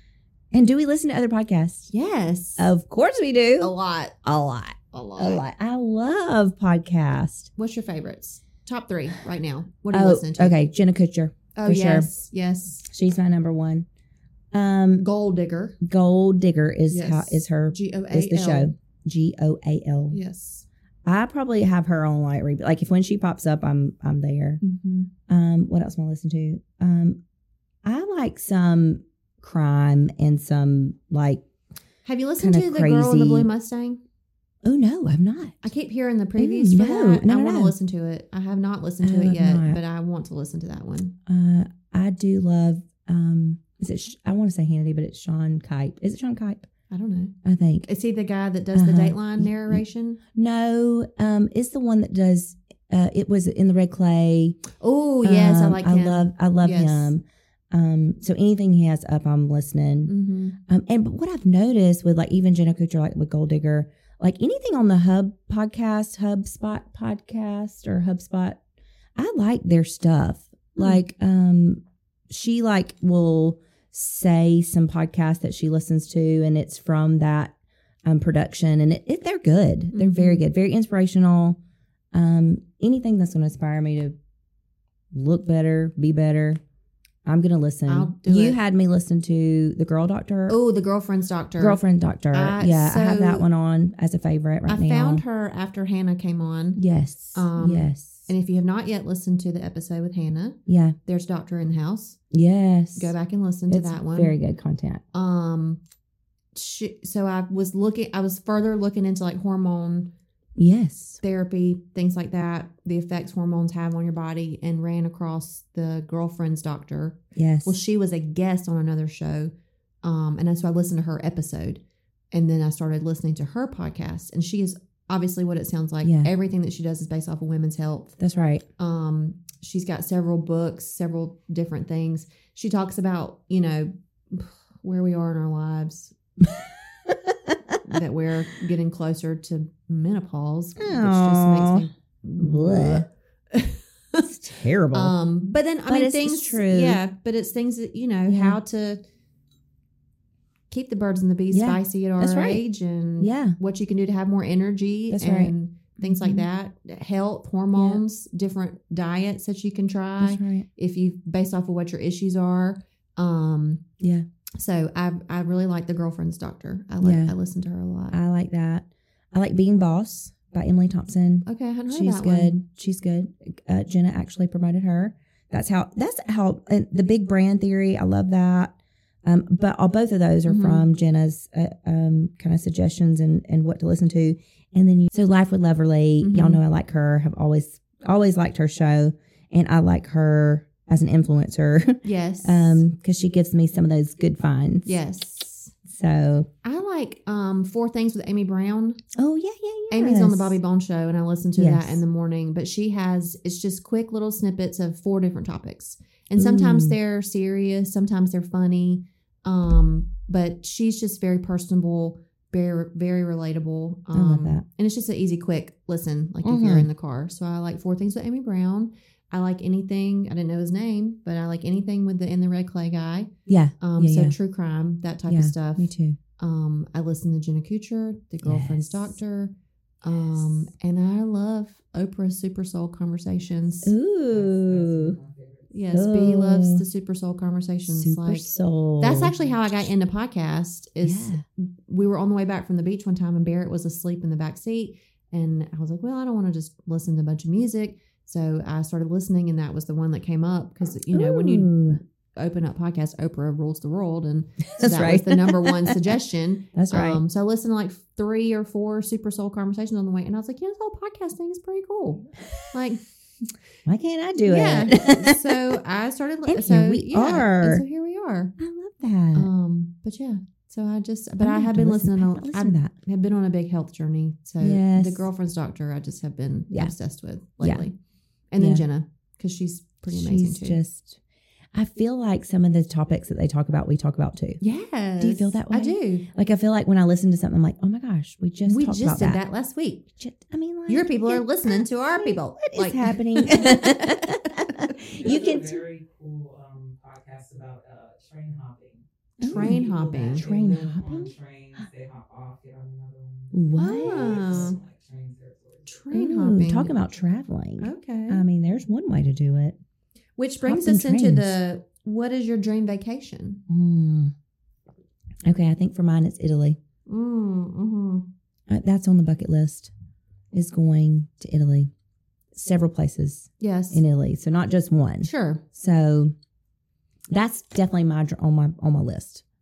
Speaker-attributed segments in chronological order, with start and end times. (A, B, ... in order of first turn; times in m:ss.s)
0:00.5-0:01.9 A
0:01.9-0:02.7 B
0:02.6-0:03.7 A
0:03.6-0:04.2 B
0:04.2-0:07.5 A
0:04.9-0:05.4 B
0:07.6-0:10.6 B
0:09.9-0:12.1 A
0:11.5-0:12.8 B
0:12.9-0:13.8 A
0:14.5-0:15.0 A
0:15.0-0:15.8 B
0:15.8-0:20.2 A
0:16.9-0:18.7 B
0:20.1-0:20.6 B
0:21.0-0:24.6 A
0:24.6-0:25.1 B
0:25.3-0:27.2 A
0:27.8-0:31.4 A
0:32.0-0:34.0 B
0:32.4-0:33.5 A
0:34.6-0:35.6 A
0:35.6-0:41.2 B
0:36.4-0:37.7 A
0:39.0-0:39.8 A
0:41.3-0:46.7 A
0:46.9-0:47.3 B
0:47.4-0:47.9 A
0:47.8-0:50.2 B
0:48.7-0:49.8 A
0:50.3-0:54.6 A
0:54.8-0:57.1 B
0:55.2-1:00.1 A
1:00.1-1:00.6 B
1:00.6-1:08.6 A
1:09.2-1:17.5 A
1:10.8-1:11.0 B
1:18.0-1:21.6 A
1:19.9-1:20.4 B
1:22.1-1:24.2 A
1:25.1-1:26.6 A
1:27.2-1:30.6 A
1:27.9-1:28.6 B
1:30.5-1:31.8 B
1:31.6-1:35.2 A
1:32.3-1:33.5 B
1:34.7-1:36.8 B
1:36.8-1:38.3 A
1:37.3-1:42.2 B
1:40.6-1:41.0 A
1:42.3-1:43.1 A
1:43.0-1:44.3 B
1:43.7-1:45.0 A
1:45.1-1:45.8 B
1:46.5-1:50.1 B
1:50.6-1:51.2 A
1:51.2-2:08.2 B
1:57.4-1:57.8 A
2:06.0-2:06.3 A
2:08.2-2:08.6 A
2:08.8-2:16.1 B
2:17.0-2:17.8 A
2:17.8-2:24.2 B
2:20.8-2:23.0 A
2:24.2-2:25.1 A
2:24.9-2:29.0 B
2:25.9-2:27.0 A
2:28.3-2:28.6 A
2:30.7-2:43.8 B
2:31.5-2:32.6 A
2:33.2-2:33.6 A
2:35.1-2:36.4 A
2:37.7-2:38.0 A
2:40.2-2:40.6 A
2:44.0-2:44.2 A
2:44.6-2:48.2 B
2:47.0-2:47.3 A
2:48.1-3:15.0 A
2:51.4-2:52.5 B
3:00.4-3:00.8 B
3:06.2-3:06.6 B
3:12.0-3:12.8 B
3:14.8-3:15.7 B
3:15.8-3:16.5 A
3:16.6-3:19.0 B
3:19.2-3:20.6 A
3:19.9-3:53.9 B
3:21.6-3:22.0 A
3:26.4-3:27.0 A
3:34.1-3:34.6 A
3:36.4-3:36.9 A
3:43.5-3:44.4 A
3:45.3-3:46.2 A
3:48.4-3:49.1 A
3:53.8-3:55.2 A
3:54.3-3:55.8 C
3:55.7-4:23.0 B
3:55.9-3:56.8 A
3:57.9-3:59.8 A
3:59.3-3:59.6 C
4:01.0-4:01.4 A
4:11.1-4:12.0 A
4:14.6-4:16.2 A
4:16.7-4:17.2 A
4:23.8-4:25.8 A
4:24.4-4:28.5 B
4:26.5-4:27.8 A
4:28.6-4:29.5 A
4:29.3-4:37.9 B
4:31.4-4:32.9 A
4:34.6-4:35.3 A
4:37.6-4:37.8 A
4:38.5-4:40.8 B
4:38.6-4:38.8 A
4:40.1-4:41.2 A
4:41.7-4:44.6 A
4:44.6-4:46.3 B
4:45.2-4:49.4 A
4:48.6-4:50.1 B
4:50.2-4:55.8 A
4:50.9-4:54.3 B
4:55.2-5:05.9 C
4:59.4-4:59.8 A
4:59.4-5:00.4 B
5:00.3-5:01.8 A
5:03.5-5:04.7 A
5:03.8-5:04.8 B
5:05.9-5:06.9 B
5:06.1-5:09.8 A
5:07.8-5:08.4 B
5:10.4-5:13.6 B
5:10.6-5:11.6 A
5:13.7-5:14.3 A
5:15.4-5:16.8 A
5:17.1-5:18.3 B
5:18.7-5:19.9 A
5:20.5-5:21.9 A
5:22.5-5:26.3 A
5:23.6-5:24.0 B
5:25.2-5:25.6 B
5:27.3-5:29.4 A